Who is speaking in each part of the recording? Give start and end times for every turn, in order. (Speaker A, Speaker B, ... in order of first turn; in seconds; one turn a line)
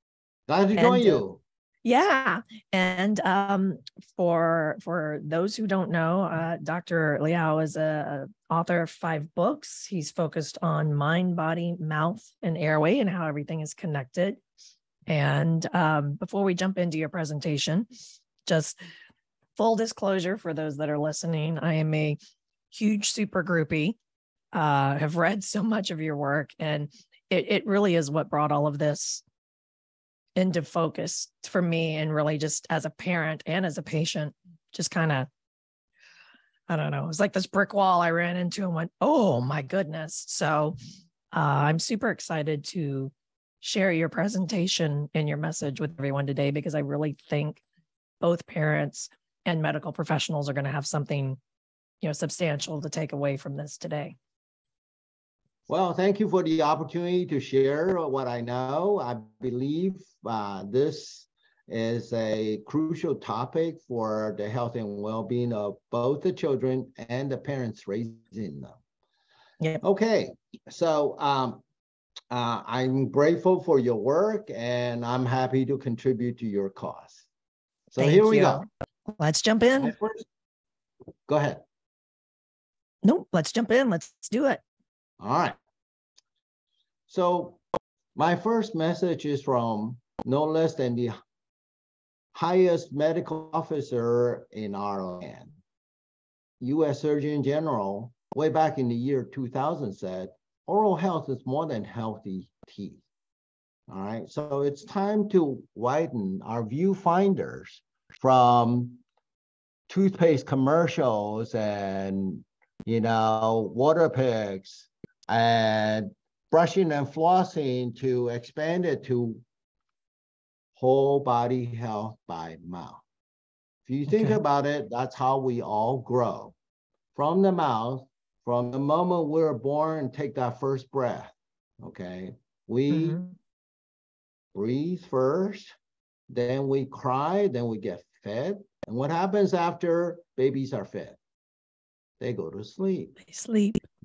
Speaker A: 0.5-1.4
Speaker B: 0.8-1.2
Speaker B: 1.8-14.4
Speaker B: 15.1-17.9
Speaker B: 18.4-18.8
Speaker B: 19.6-22.2
Speaker B: 22.7-24.0
Speaker B: 24.5-29.2
Speaker B: 30.4-35.3
Speaker B: 36.7-40.8
Speaker B: 41.3-47.6
Speaker B: 48.2-51.4
Speaker B: 52.0-54.1
Speaker A: 55.7-68.8
Speaker A: 69.8-71.6
Speaker A: 72.3-77.3
Speaker A: 77.9-78.7
Speaker B: 78.0-79.9
Speaker A: 79.8-80.2
Speaker A: 81.3-81.6
Speaker B: 83.0-84.6
Speaker A: 85.2-85.6
Speaker A: 87.1-87.6
Speaker A: 88.1-91.2
Speaker A: 92.3-95.5
Speaker A: 96.6-103.0
Speaker A: 103.9-109.0
Speaker A: 109.9-119.4
Speaker A: 120.8-123.0
Speaker A: 123.8-126.5
Speaker B: 124.1-124.4
Speaker A: 127.1-133.2
Speaker B: 132.9-133.3
Speaker A: 134.5-135.7
Speaker A: 136.3-141.2
Speaker A: 142.2-143.2
Speaker B: 143.2-143.8